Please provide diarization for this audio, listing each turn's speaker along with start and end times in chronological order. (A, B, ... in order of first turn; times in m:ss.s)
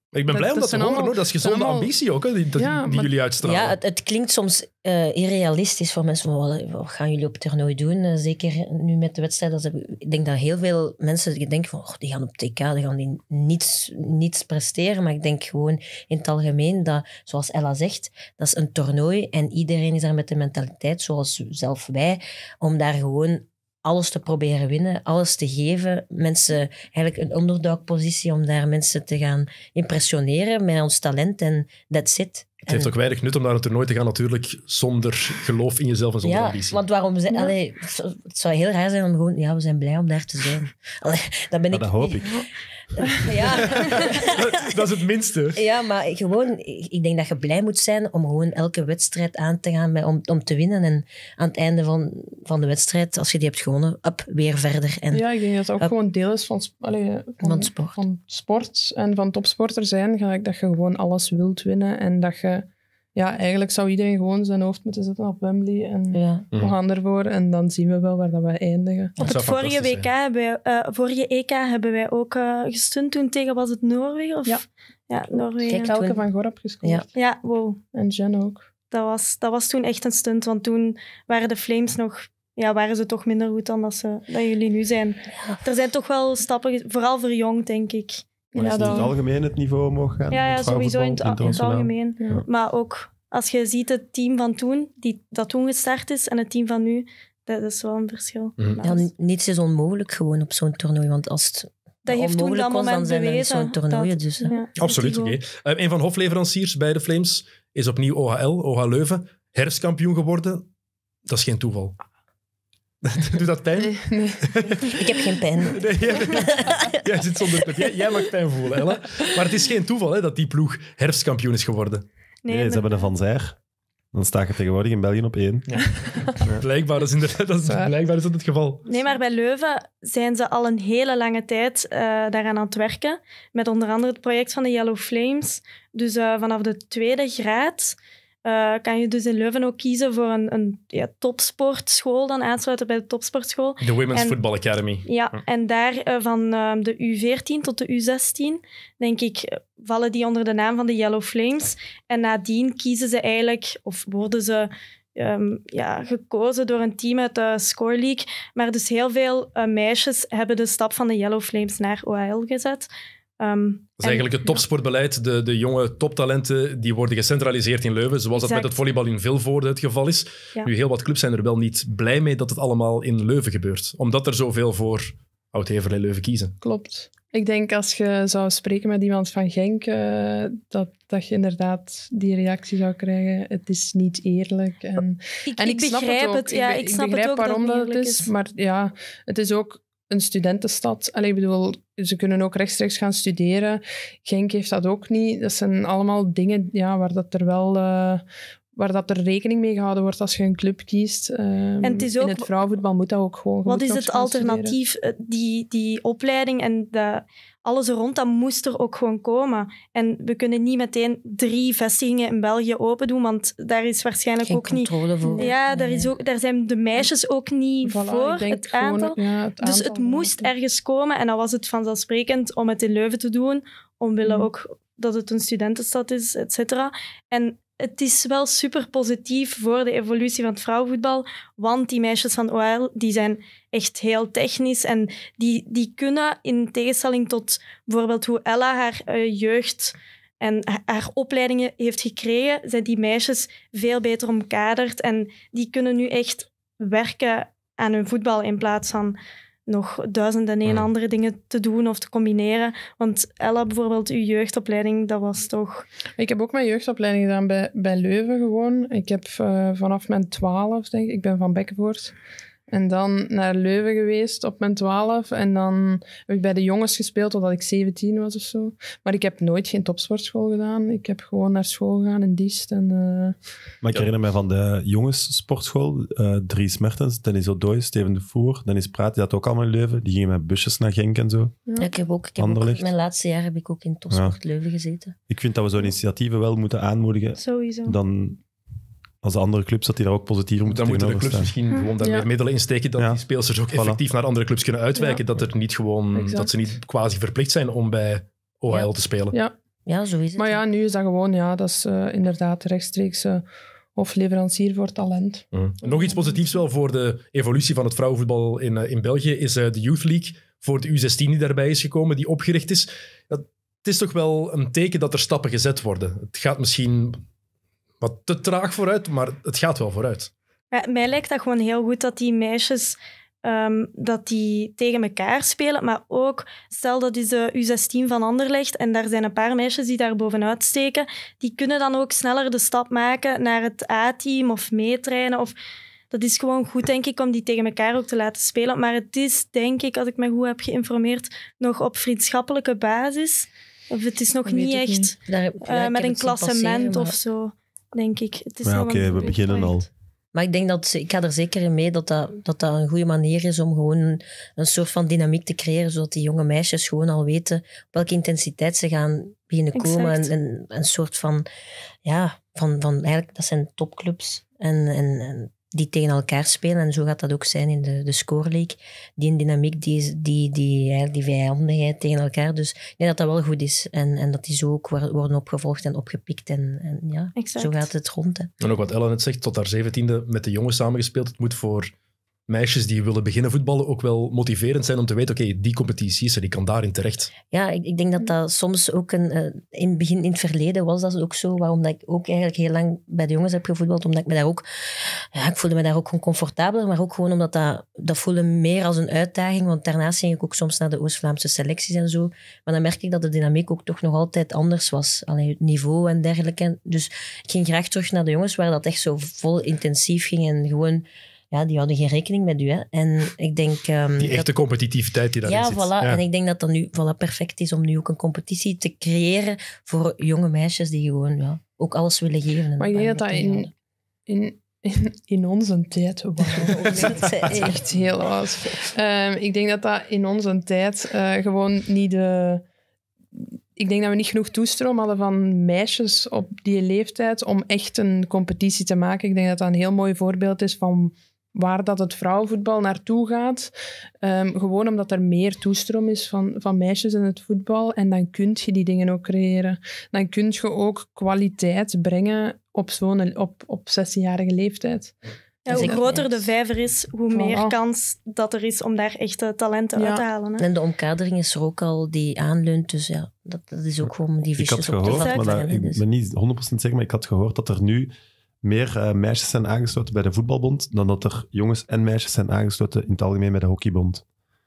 0:00.1-0:03.8 A
0:00.3-0:01.9 B
0:02.6-0:03.1 B
0:03.4-0:32.9 C
0:32.7-0:36.8 A
0:36.2-0:44.8 C
0:41.7-0:42.4 D
0:43.8-0:45.6 A
0:45.6-0:55.2 C
0:55.1-1:09.2 B
0:57.4-0:58.0 C
1:06.1-1:06.4 C
1:09.2-1:16.0 E
1:09.2-1:10.1 A
1:15.3-1:17.1 B
1:15.7-1:16.2 C
1:17.1-1:17.8 E
1:17.9-1:18.6 B
1:18.9-1:28.2 E
1:28.5-1:29.1 B
1:28.5-1:32.4 D
1:30.3-1:39.1 E
1:38.8-1:44.6 C
1:42.0-1:45.4 E
1:44.8-1:50.7 A
1:51.3-1:52.0 A
1:53.0-2:02.0 A
1:53.8-1:54.5 B
1:54.9-1:57.9 C
2:02.4-2:02.9 E
2:02.5-2:03.6 D
2:04.1-2:06.6 D
2:05.7-2:08.8 A
2:07.6-2:07.9 B
2:08.9-2:24.4 E
2:23.8-2:25.1 A
2:25.0-2:44.6 E
2:44.0-2:56.6 A
2:48.3-2:48.7 E
2:56.6-3:24.8 B
3:05.5-3:08.3 E
3:21.8-3:22.5 E
3:23.6-4:15.8 E
3:34.4-3:36.1 C
3:35.2-3:35.5 B
3:37.8-3:40.5 B
4:16.2-4:22.1 B
4:22.7-4:33.4 B
4:33.8-4:41.6 D
4:41.8-4:45.2 C
4:42.4-4:42.9 D
4:44.1-4:44.4 D
4:45.3-4:48.4 D
4:47.4-4:48.0 E
4:49.2-4:51.5 D
4:50.6-4:59.4 A
4:52.0-4:52.3 B
4:53.7-4:54.0 D
4:54.9-4:55.2 B
4:56.1-4:56.5 B
4:59.8-5:00.6 C
5:00.4-5:03.4 B
5:03.9-5:06.4 B
5:05.5-5:17.2 A
5:18.0-5:20.3 A
5:20.7-5:35.5 E
5:36.1-5:49.8 E
5:44.4-5:45.1 B
5:45.2-5:47.2 C
5:48.6-5:49.9 D
5:50.3-6:01.4 C
5:59.7-6:00.3 E
6:02.0-6:18.5 C
6:17.4-6:17.8 E
6:18.6-6:21.9 A
6:22.5-6:27.3 A
6:27.4-6:54.5 C
6:54.2-6:56.2 A
6:55.4-7:03.7 C
7:02.8-7:03.7 B
7:04.3-7:12.6 B
7:06.4-7:07.8 C
7:13.4-7:23.7 B
7:24.2-7:35.2 B
7:35.6-7:40.6 E
7:35.7-7:36.0 B
7:35.7-7:36.4 C
7:37.3-7:37.8 B
7:40.0-7:40.2 B
7:40.6-7:46.0 C
7:44.6-7:48.1 D
7:45.1-7:45.5 E
7:48.6-7:54.2 D